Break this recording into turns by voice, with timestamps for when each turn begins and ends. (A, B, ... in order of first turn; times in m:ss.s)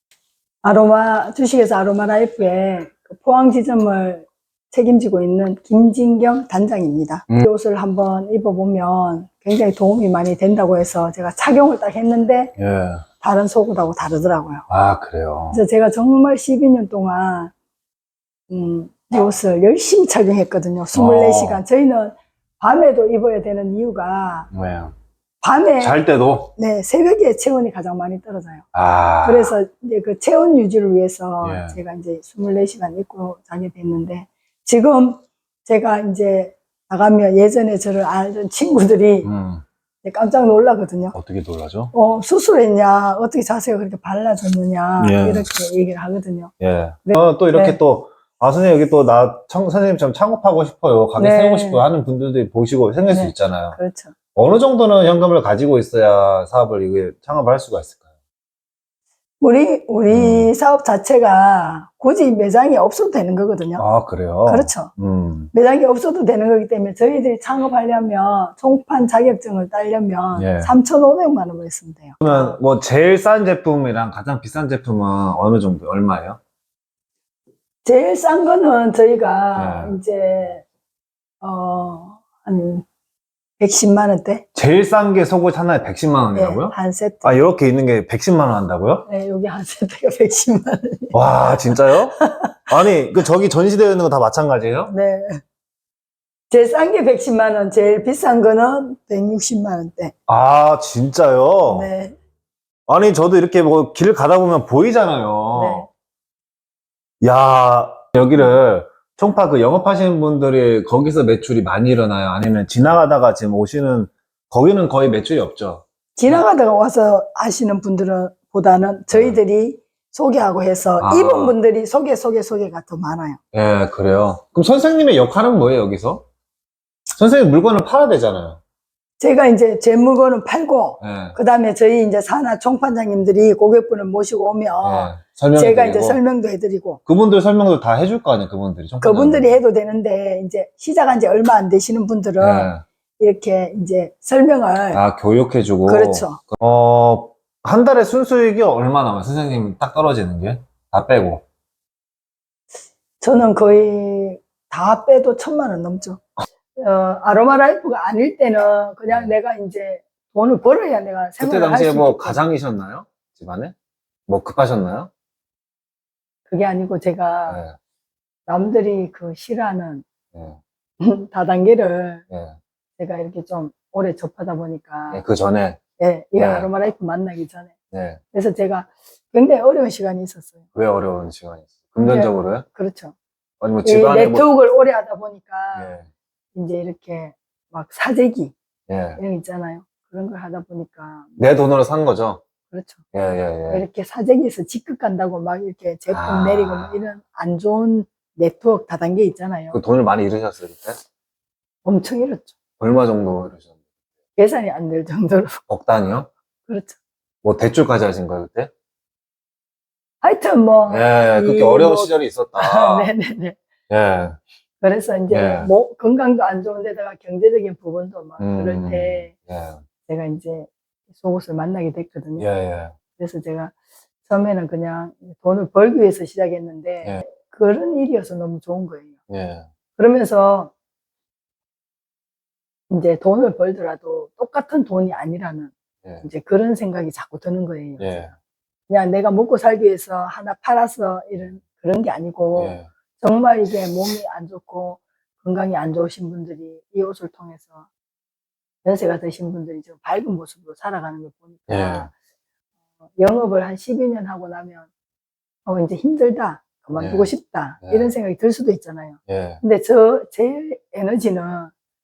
0:00.6-0:12.5 A
0:12.6-0:13.0 B
0:13.2-0:14.6 A
0:14.7-0:15.6 B
0:15.5-0:17.5 A
0:18.5-0:24.5 A
0:20.9-0:21.6 B
0:24.5-0:24.9 B
0:25.4-0:26.0 A
0:25.8-0:26.5 B
0:26.6-0:28.6 A
0:28.7-0:29.5 B
0:29.2-0:39.3 A
0:31.4-0:31.8 B
0:39.2-0:39.6 B
0:40.0-0:41.1 A
0:41.1-0:41.9 B
0:41.9-0:46.5 A
0:45.0-0:45.5 B
0:46.6-0:53.8 B
0:47.0-0:47.8 A
0:51.2-0:51.8 A
0:53.1-0:54.1 A
0:54.3-0:58.0 B
0:59.4-1:03.8 A
1:00.1-1:00.5 B
1:03.8-1:05.5 B
1:04.4-1:04.9 A
1:05.5-1:12.6 A
1:10.3-1:10.7 B
1:12.2-1:16.4 B
1:17.8-1:20.6 A
1:19.5-1:19.9 B
1:21.4-1:22.8 A
1:23.6-1:24.4 A
1:24.5-1:29.0 B
1:26.3-1:27.3 A
1:29.0-1:32.5 A
1:31.1-1:32.2 B
1:32.7-1:34.9 B
1:34.9-1:35.4 A
1:36.5-1:40.1 A
1:40.3-1:41.9 B
1:41.6-1:42.2 A
1:42.9-1:45.9 B
1:45.5-1:45.9 A
1:47.2-1:56.4 B
1:56.2-2:03.4 A
1:59.1-1:59.4 B
2:01.0-2:01.5 B
2:03.5-2:06.2 B
2:07.2-2:08.6 B
2:09.2-2:17.0 A
2:11.0-2:11.4 B
2:14.8-2:16.2 B
2:17.0-2:19.6 B
2:19.0-2:25.0 A
2:22.4-2:22.8 B
2:24.9-2:31.4 B
2:25.8-2:26.4 A
2:33.2-2:36.2 A
2:36.8-2:42.4 A
2:41.4-2:43.7 B
2:44.3-2:45.1 B
2:46.5-2:47.6 A
2:47.5-2:47.7 B
2:48.5-2:50.0 A
2:50.3-2:50.6 B
2:51.0-2:52.2 A
2:52.3-2:52.6 B
2:53.0-2:55.2 A
2:55.1-2:55.8 B
2:56.0-2:57.7 A
2:56.4-2:56.7 B
2:57.9-2:58.2 B
2:58.3-3:00.6 A
3:00.7-3:02.6 B
3:02.0-3:03.1 A
3:03.6-3:04.5 B
3:03.8-3:05.9 A
3:05.7-3:06.0 B
3:06.5-3:08.5 A
3:08.9-3:09.2 B
3:09.2-3:11.3 A
3:11.4-3:12.4 B
3:12.7-3:13.0 A
3:13.1-3:13.8 B
3:13.7-3:19.8 A
3:16.1-3:16.9 B
3:19.7-3:21.0 B
3:21.8-3:22.5 A
3:22.8-3:23.7 B
3:24.4-3:25.6 A
3:25.7-3:26.3 B
3:26.7-3:27.0 A
3:27.4-3:28.7 B
3:30.2-3:33.6 A
3:30.9-3:33.1 B
3:33.9-3:34.4 B
3:34.8-3:39.3 A
3:35.3-3:35.7 B
3:38.4-3:39.8 B
3:40.1-3:42.4 A
3:42.4-3:42.9 B
3:43.2-3:43.7 A
3:44.3-3:49.2 A
3:49.3-3:49.7 B
3:50.0-3:50.7 A
3:52.9-3:55.7 A
3:56.2-3:58.3 A
3:58.0-3:58.3 B
3:58.9-4:07.8 A
4:02.6-4:02.9 B
4:08.8-4:12.1 A
4:11.7-4:12.1 B
4:13.2-4:14.9 A
4:15.6-4:21.7 A
4:16.9-4:17.3 B
4:17.8-4:18.1 B
4:19.3-4:19.6 B